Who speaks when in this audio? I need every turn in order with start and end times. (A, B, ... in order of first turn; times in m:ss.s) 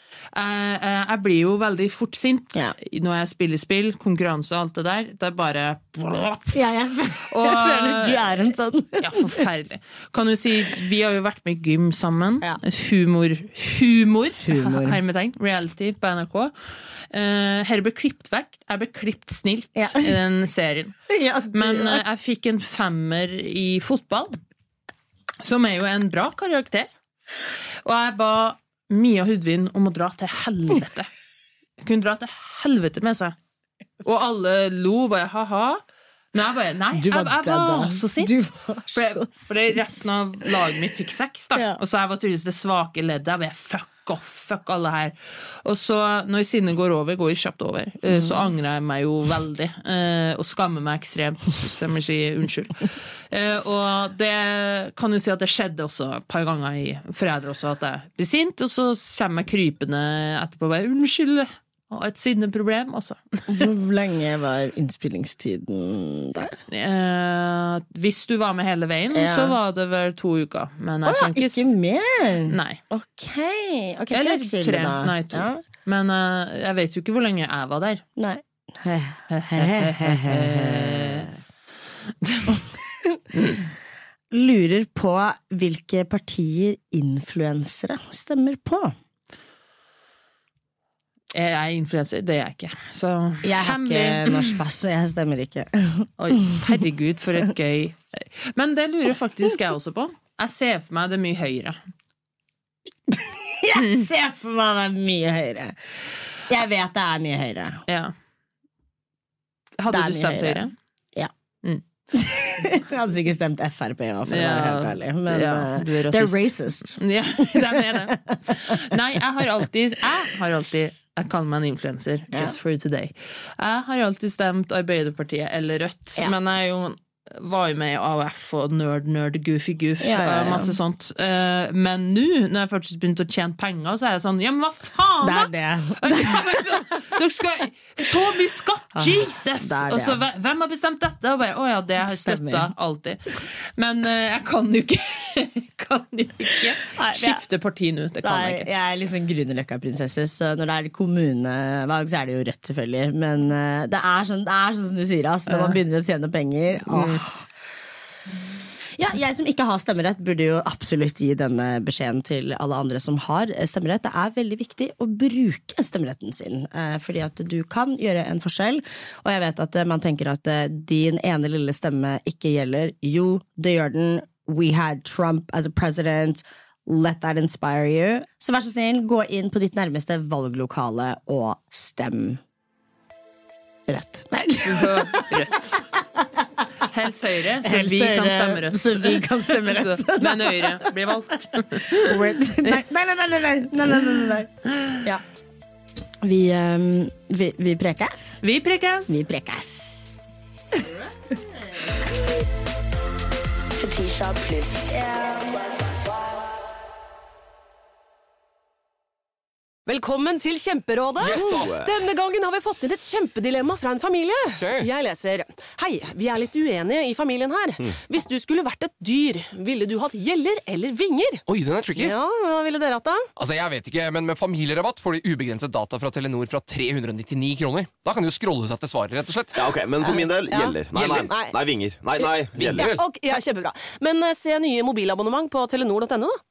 0:00.3-0:06.6 A
0:06.5-0:09.4 B
0:07.2-0:08.4 A
0:09.0-0:21.0 A
0:14.4-0:15.0 B
0:19.7-0:20.1 B
0:21.1-0:22.0 B
0:21.5-0:24.4 A
0:25.4-0:26.9 A
0:27.8-0:31.1 A
0:31.8-0:33.4 A
0:34.0-0:35.8 A
0:36.3-0:38.3 A
0:36.9-0:40.0 B
0:38.9-1:03.7 A
0:41.5-0:41.8 B
0:48.1-0:48.5 B
1:03.5-1:06.6 B
1:06.7-1:11.7 A
1:09.1-1:09.6 B
1:11.0-1:15.6 B
1:12.5-1:12.8 A
1:14.1-1:18.0 A
1:18.2-1:21.4 B
1:19.3-1:21.3 A
1:22.2-1:22.6 A
1:22.5-1:23.3 B
1:23.4-1:23.6 A
1:24.3-1:28.9 B
1:31.3-1:34.6 A
1:33.4-1:36.8 B
1:36.2-1:41.8 A
1:43.1-1:46.0 B
1:43.8-1:44.0 A
1:46.5-1:47.8 B
1:47.9-1:48.1 A
1:49.8-1:50.7 A
1:49.9-1:51.3 B
1:52.1-1:58.9 B
1:54.3-2:28.7 A
2:10.0-2:10.8 B
2:15.2-2:17.1 B
2:19.0-2:20.2 B
2:22.0-2:22.7 B
2:27.0-2:27.4 B
2:28.2-2:37.5 B
2:35.5-2:35.8 A
2:36.9-2:37.2 A
2:39.0-3:02.4 B
3:03.9-3:06.6 B
3:04.6-3:05.8 A
3:06.8-3:12.8 A
3:07.6-3:11.0 B
3:12.0-3:15.2 B
3:16.2-3:18.4 B
3:18.4-3:19.2 A
3:19.1-3:20.1 B
3:23.8-3:25.9 B
3:29.9-3:43.3 C
3:31.2-3:31.8 D
3:31.3-3:31.8 E
3:34.6-3:34.9 D
3:41.5-3:42.1 D
3:43.4-3:49.7 D
3:49.6-3:52.9 E
3:50.0-3:51.6 C
3:52.2-3:56.4 C
3:52.6-3:53.0 D